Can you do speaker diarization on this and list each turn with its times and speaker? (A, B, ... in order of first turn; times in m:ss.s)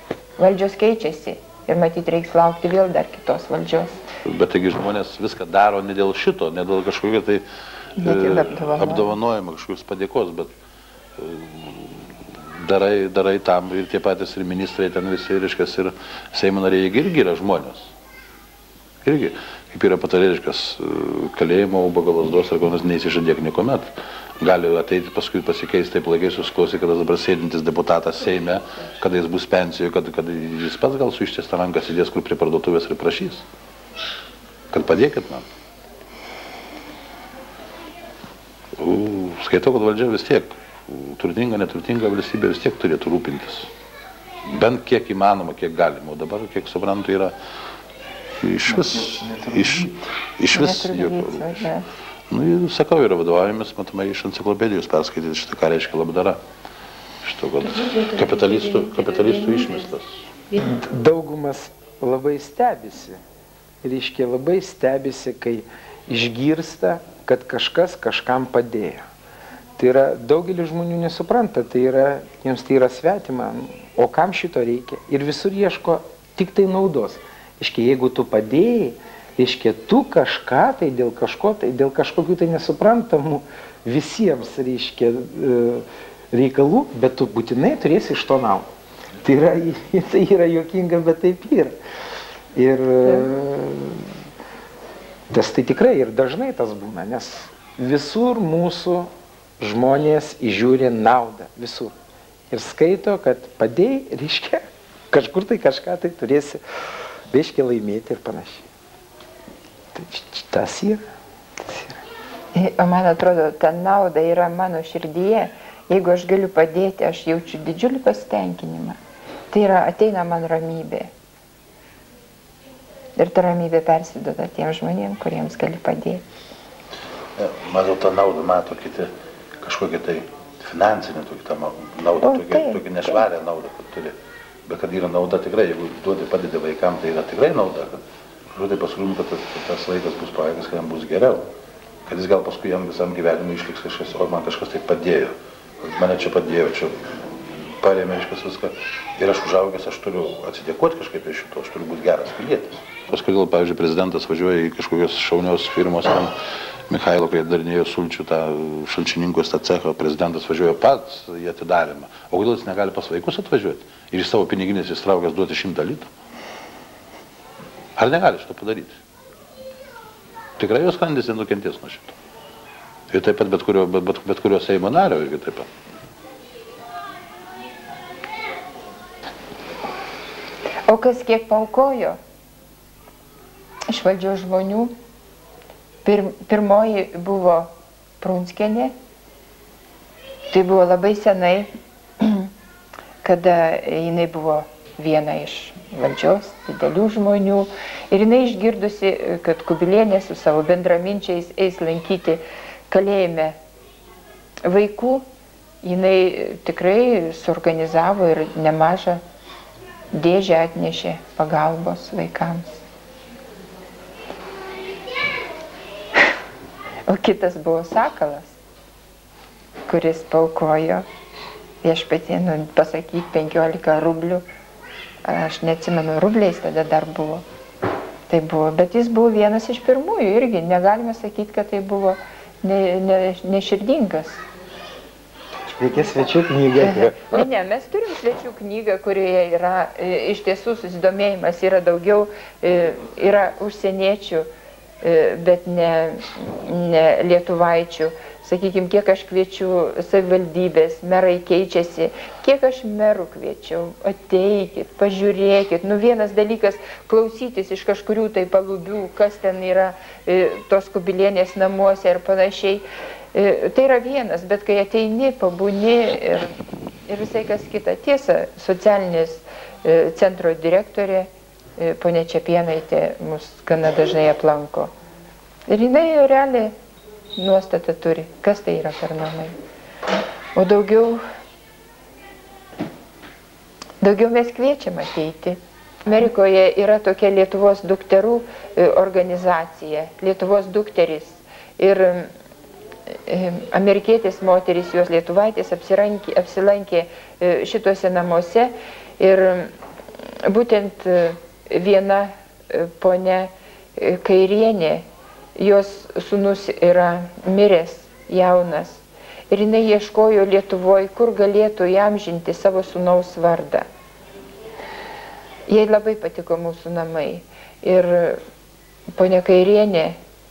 0:00.4-0:04.0 A
0:04.2-0:07.4 B
0:08.0-0:09.2 A
0:08.0-0:10.5 B
0:11.2-0:12.0 B
0:12.6-0:17.9 B
0:19.0-0:33.4 B
0:34.7-0:35.4 B
0:38.8-0:43.7 B
0:44.4-0:47.3 B
0:48.4-0:51.6 B
0:48.7-0:50.0 C
0:50.5-0:51.8 A
0:52.3-0:56.4 B
0:57.2-1:00.1 B
1:00.6-1:03.2 C
1:03.8-1:09.1 C
1:09.8-1:28.7 C
1:29.2-1:31.8 C
1:32.5-1:34.1 C
1:35.3-1:41.9 C
1:42.5-1:46.6 C
1:47.3-1:48.6 C
1:49.9-1:51.0 C
1:51.6-1:52.0 C
1:52.5-1:59.0 A
1:59.5-2:01.1 A
2:03.2-2:06.2 A
2:07.4-2:14.1 B
2:12.2-2:12.8 A
2:14.6-2:18.0 B
2:18.5-2:21.5 B
2:22.0-2:27.0 B
2:27.8-2:36.3 B
2:36.9-2:46.1 B
2:48.0-2:49.0 B
2:50.6-2:52.1 B
2:53.1-2:55.7 B
3:00.9-3:02.2 A
3:03.9-3:04.9 A
3:06.0-3:08.9 A
3:10.5-3:12.5 A
3:13.2-3:23.6 A
3:24.6-3:25.2 A
3:25.8-3:29.2 A
3:30.1-3:32.8 A
3:37.1-3:38.5 A
3:39.9-3:41.0 A
3:41.8-3:44.4 A
3:45.2-3:47.4 A
3:48.3-3:54.4 A
3:55.7-3:57.4 C
3:56.8-4:04.5 A
4:05.0-4:26.5 A
4:27.1-4:34.9 A
4:35.7-4:36.7 A
4:37.4-4:39.5 A
4:40.5-4:41.2 A
4:44.0-4:52.3 A
4:53.1-4:59.7 A
5:00.5-5:05.0 A
5:05.6-5:13.9 A
5:15.7-5:18.4 A
5:19.1-5:20.2 A